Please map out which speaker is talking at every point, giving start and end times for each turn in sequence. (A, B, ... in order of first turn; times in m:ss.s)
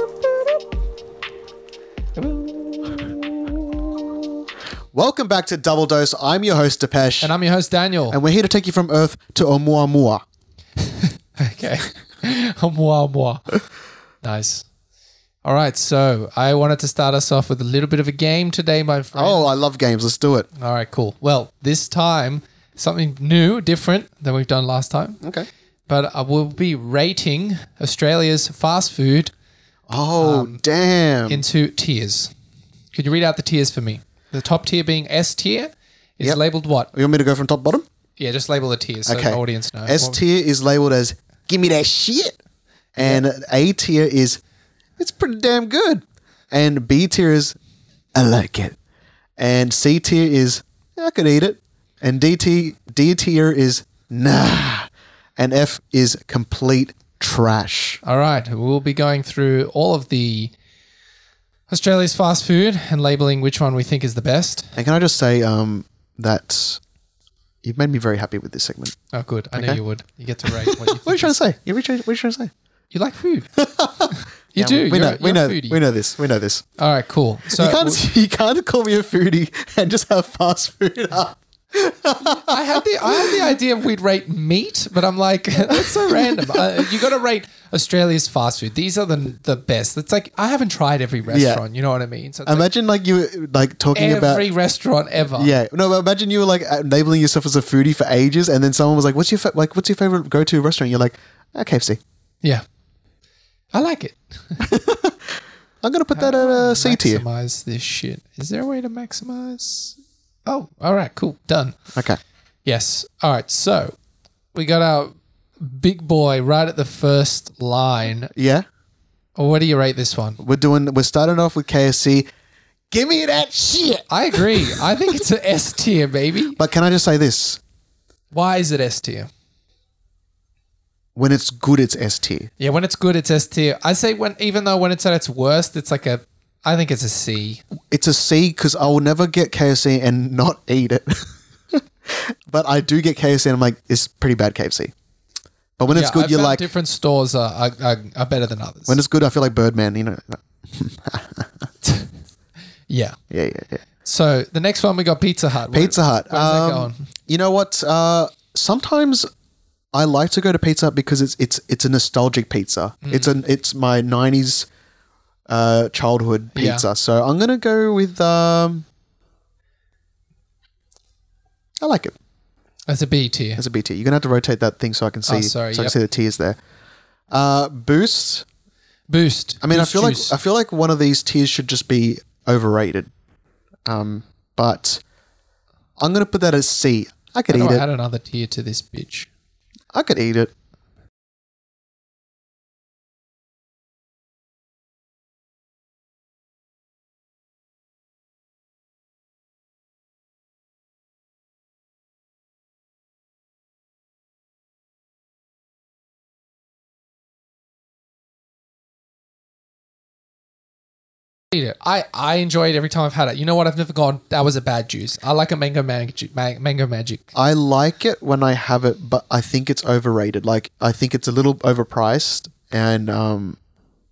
0:02.2-0:03.2 A
0:04.9-0:07.3 B
0:07.2-0:08.2 A
0:08.1-0:10.2 B
0:10.8-0:13.6 A
0:14.2-0:14.6 A
0:15.4-0:19.5 A
0:19.1-0:20.5 B
0:20.6-0:25.2 A
0:25.2-0:25.5 B
0:25.9-0:29.3 A
0:29.9-0:31.4 B
0:30.2-0:30.6 A
0:31.3-0:32.3 A
0:32.9-0:36.9 A
0:36.9-0:37.8 B
0:38.2-0:40.2 A
0:39.0-0:42.4 B
0:43.0-0:44.4 B
0:43.0-0:43.2 A
0:45.0-0:47.6 B
0:48.1-0:48.8 B
0:49.4-0:58.0 B
0:58.0-1:00.5 A
1:01.7-1:04.8 A
1:04.8-1:06.8 B
1:07.6-1:09.0 B
1:09.1-1:11.3 A
1:09.5-1:09.8 B
1:10.4-1:12.5 B
1:12.9-1:13.5 A
1:13.6-1:16.6 B
1:14.1-1:15.8 A
1:16.8-1:18.0 A
1:17.5-1:23.5 B
1:22.4-1:32.6 A
1:25.6-1:27.0 B
1:31.3-1:31.6 B
1:32.4-1:34.5 B
1:33.9-1:35.6 A
1:35.3-1:42.0 B
1:43.7-1:44.6 A
1:44.6-1:47.2 B
1:46.1-1:51.8 A
1:51.9-1:52.2 B
1:52.6-1:54.0 A
1:54.5-1:58.3 A
1:58.3-1:58.6 B
1:59.4-2:00.4 A
2:00.4-2:02.3 B
2:02.9-2:05.0 B
2:04.1-2:06.6 A
2:06.6-2:07.6 B
2:08.3-2:09.3 A
2:11.1-2:12.5 B
2:12.6-2:17.6 A
2:17.9-2:24.9 B
2:25.8-2:26.6 B
2:25.9-2:29.0 A
2:28.9-2:31.7 B
2:31.8-2:32.1 A
2:32.9-2:33.2 A
2:33.3-2:33.8 B
2:34.0-2:37.0 A
2:35.7-2:39.3 B
2:39.9-2:44.7 B
2:43.0-2:43.4 A
2:45.5-2:48.8 B
2:46.5-2:46.8 A
2:51.8-2:52.2 B
2:52.9-2:53.6 A
2:53.6-2:56.6 B
2:55.2-2:55.9 A
2:57.3-2:58.4 B
2:59.1-3:00.3 A
2:59.6-3:03.1 B
3:03.8-3:05.0 B
3:06.0-3:07.8 B
3:07.5-3:09.3 A
3:09.9-3:10.5 B
3:31.5-3:37.3 A
3:37.3-3:43.6 B